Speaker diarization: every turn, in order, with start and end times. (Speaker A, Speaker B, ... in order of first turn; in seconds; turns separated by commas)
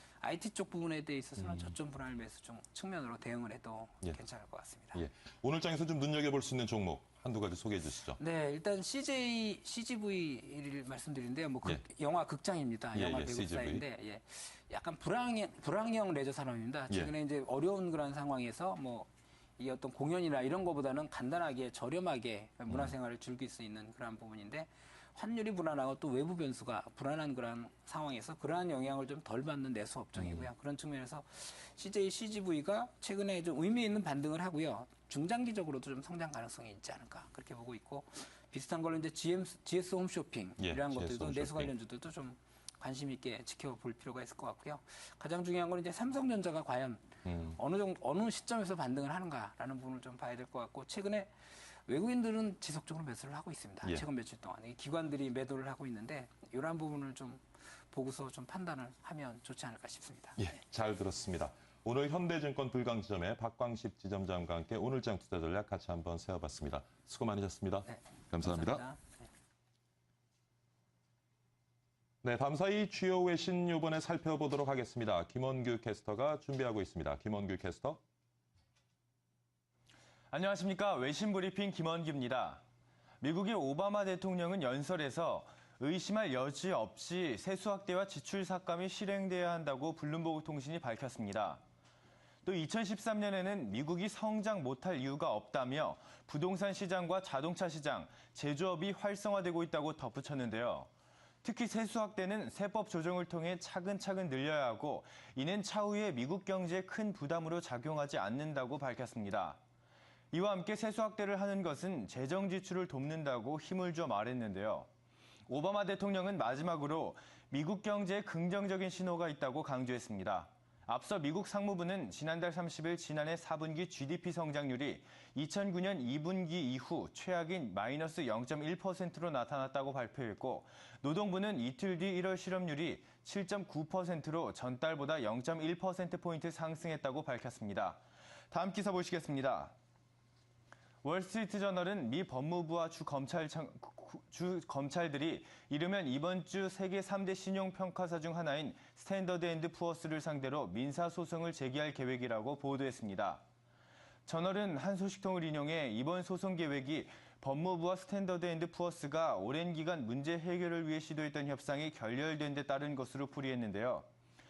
Speaker A: 0.2-5.0, Speaker B: 1.4-1.7, Speaker B: 4.9-8.2, Speaker A: 8.2-60.5, Speaker B: 12.9-13.8, Speaker B: 30.2-30.5, Speaker B: 40.6-41.7, Speaker B: 47.2-47.6, Speaker B: 60.4-68.8, Speaker A: 67.9-69.3, Speaker B: 72.2-78.0, Speaker C: 80.3-82.6, Speaker C: 83.2-91.6, Speaker C: 92.5-100.9, Speaker C: 101.4-109.6, Speaker C: 110.3-114.9, Speaker C: 115.5-139.7, Speaker C: 141.0-153.4, Speaker C: 154.3-164.1